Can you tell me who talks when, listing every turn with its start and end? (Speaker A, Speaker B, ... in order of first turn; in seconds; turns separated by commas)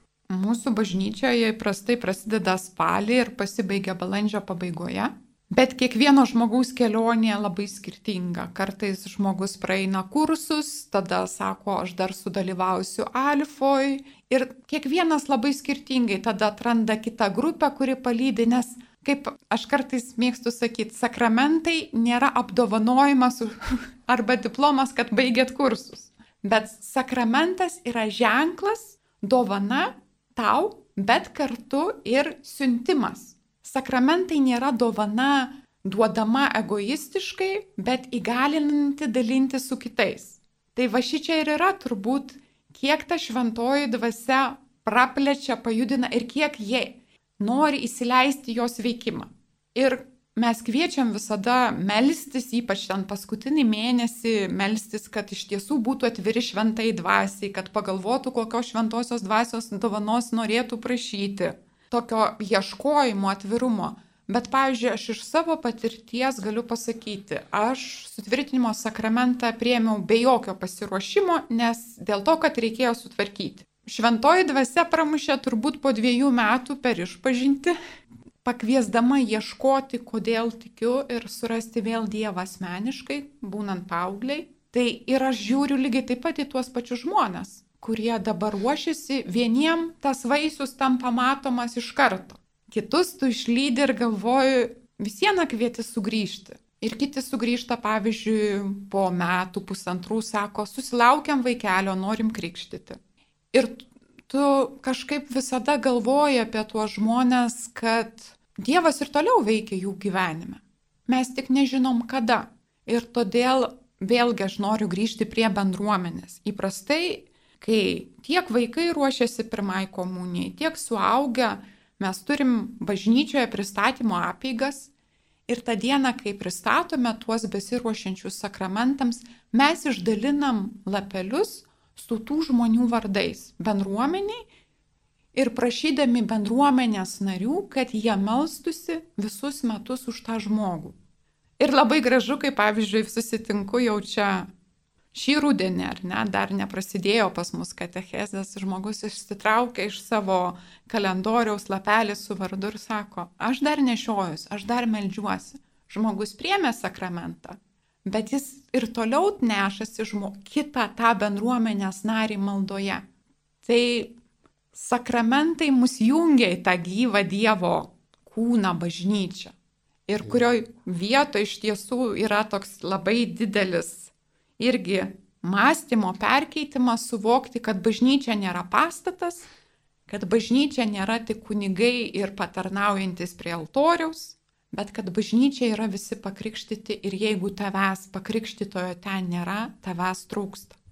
Speaker A: 0.3-77.8, Speaker A: 78.4-103.0, Speaker A: 103.5-124.9, Speaker A: 125.5-134.4, Speaker A: 135.3-141.0, Speaker A: 141.6-144.5, Speaker A: 145.1-163.1, Speaker A: 163.6-164.2, Speaker A: 164.7-169.6, Speaker A: 170.1-179.5, Speaker A: 180.1-190.8